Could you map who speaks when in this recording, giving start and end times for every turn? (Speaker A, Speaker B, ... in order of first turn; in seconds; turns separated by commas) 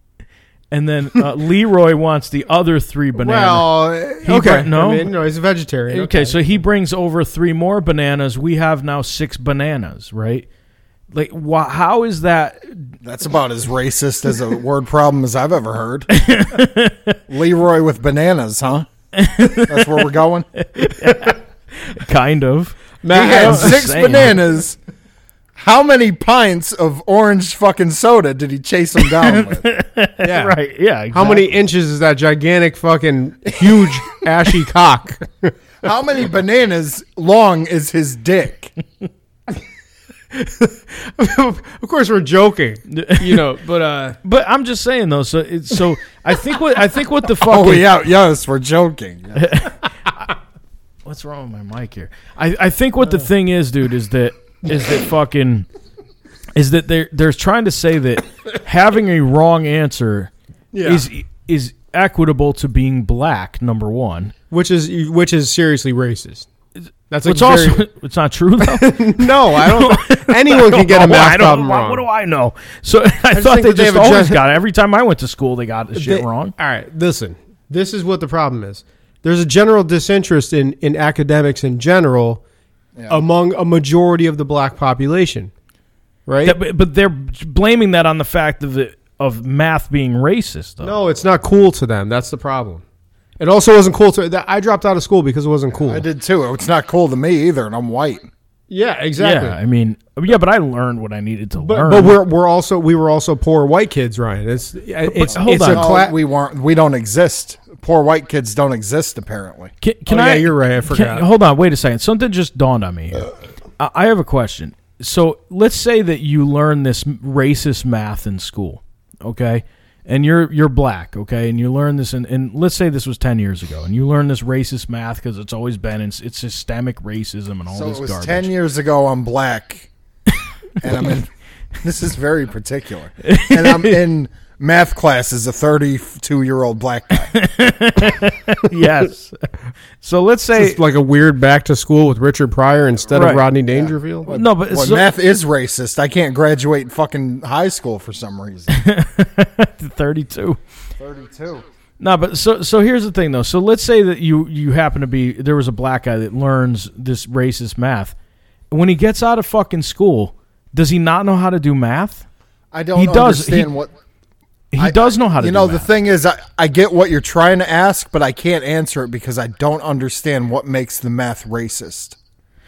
Speaker A: 0.7-3.7, Speaker B: 3.1-6.4, Speaker A: 4.2-5.1, Speaker A: 5.9-10.5, Speaker A: 11.1-12.9, Speaker C: 13.0-16.1, Speaker A: 16.1-17.2, Speaker C: 17.3-18.9, Speaker A: 19.1-20.0, Speaker C: 19.5-20.5, Speaker A: 20.6-24.4, Speaker B: 23.0-23.8, Speaker C: 23.1-24.8, Speaker C: 25.6-29.7, Speaker A: 29.1-31.6, Speaker B: 30.2-30.6, Speaker B: 31.1-35.5, Speaker C: 35.8-38.7, Speaker B: 40.3-44.2, Speaker A: 42.9-43.5, Speaker A: 44.2-48.0, Speaker C: 47.4-49.6, Speaker A: 49.4-49.9, Speaker A: 51.0-55.7, Speaker A: 56.5-64.3, Speaker B: 60.7-61.1, Speaker B: 64.5-66.5, Speaker B: 67.1-67.8, Speaker A: 67.2-76.5, Speaker B: 68.6-72.0, Speaker B: 73.3-74.4, Speaker B: 76.0-82.4, Speaker C: 83.0-83.2, Speaker B: 83.1-85.5, Speaker B: 86.3-86.6, Speaker A: 86.4-91.0, Speaker B: 90.8-92.8, Speaker B: 93.4-96.0, Speaker C: 95.8-98.3, Speaker B: 98.7-99.6, Speaker A: 99.2-102.2, Speaker B: 101.6-106.1, Speaker A: 105.0-105.9, Speaker C: 105.4-109.7, Speaker A: 109.8-113.3, Speaker B: 110.1-111.3, Speaker A: 113.8-128.5, Speaker C: 127.7-129.9, Speaker C: 130.8-131.3, Speaker C: 131.8-137.3, Speaker A: 133.2-134.0, Speaker A: 137.2-139.4, Speaker A: 140.0-140.8, Speaker B: 140.6-144.3, Speaker A: 143.1-143.5, Speaker C: 143.7-148.8, Speaker A: 144.3-145.1, Speaker A: 148.7-150.6, Speaker C: 151.0-151.6, Speaker A: 152.0-158.1, Speaker A: 158.7-162.3, Speaker C: 162.7-163.9, Speaker A: 162.9-163.7, Speaker A: 164.7-165.9, Speaker C: 164.8-172.2